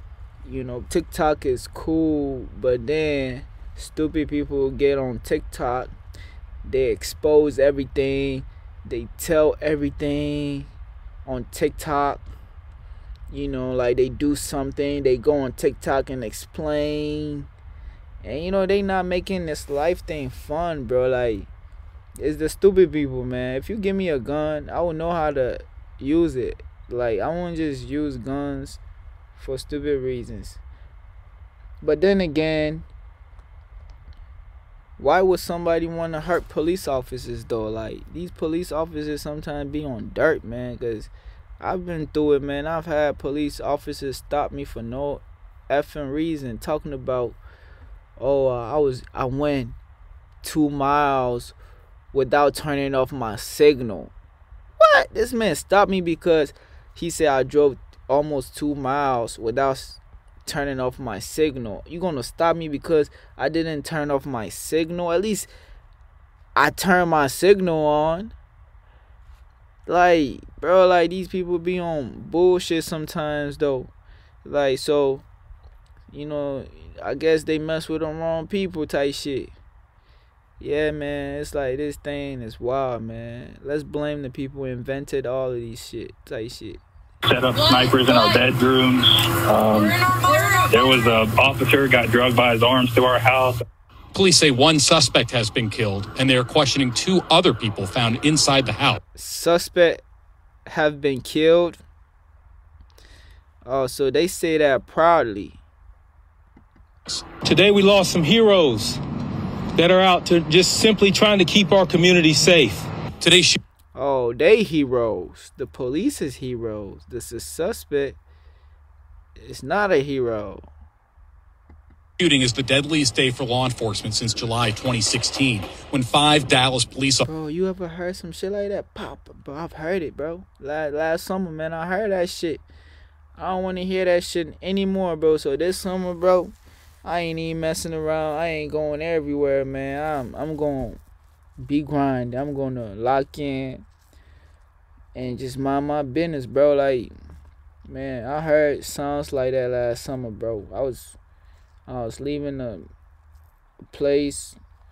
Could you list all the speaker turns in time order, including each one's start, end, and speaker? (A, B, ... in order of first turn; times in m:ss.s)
0:00.4-0:05.9 A
0:06.6-0:10.7 A
0:11.2-0:12.2 A
0:13.3-0:17.5 A
0:18.2-0:21.5 A
0:22.2-0:28.8 A
0:29.4-0:30.6 A
0:31.8-0:32.9 A
0:35.0-0:47.4 A
0:48.2-0:49.8 A
0:50.4-0:51.6 A
0:52.1-0:54.1 A
0:54.8-1:05.5 A
1:06.6-1:08.4 A
1:09.9-1:13.9 A
1:14.4-1:15.2 A
1:16.1-1:19.5 A
1:20.6-1:26.8 A
1:27.3-1:30.0 B
1:30.6-1:33.6 B
1:34.1-1:39.0 C
1:39.2-1:40.0 A
1:40.7-1:41.8 A
1:43.6-1:45.6 A
1:47.4-1:49.0 D
1:49.8-1:52.9 D
1:53.2-1:53.6 C
1:53.9-1:58.2 A
1:59.4-2:00.6 A
2:02.2-2:07.3 C
2:07.2-2:12.6 A
2:13.4-2:21.0 A
2:21.6-2:23.9 A
2:25.2-2:27.1 A
2:27.9-2:31.2 A
2:31.9-2:32.9 A
2:33.9-2:34.6 A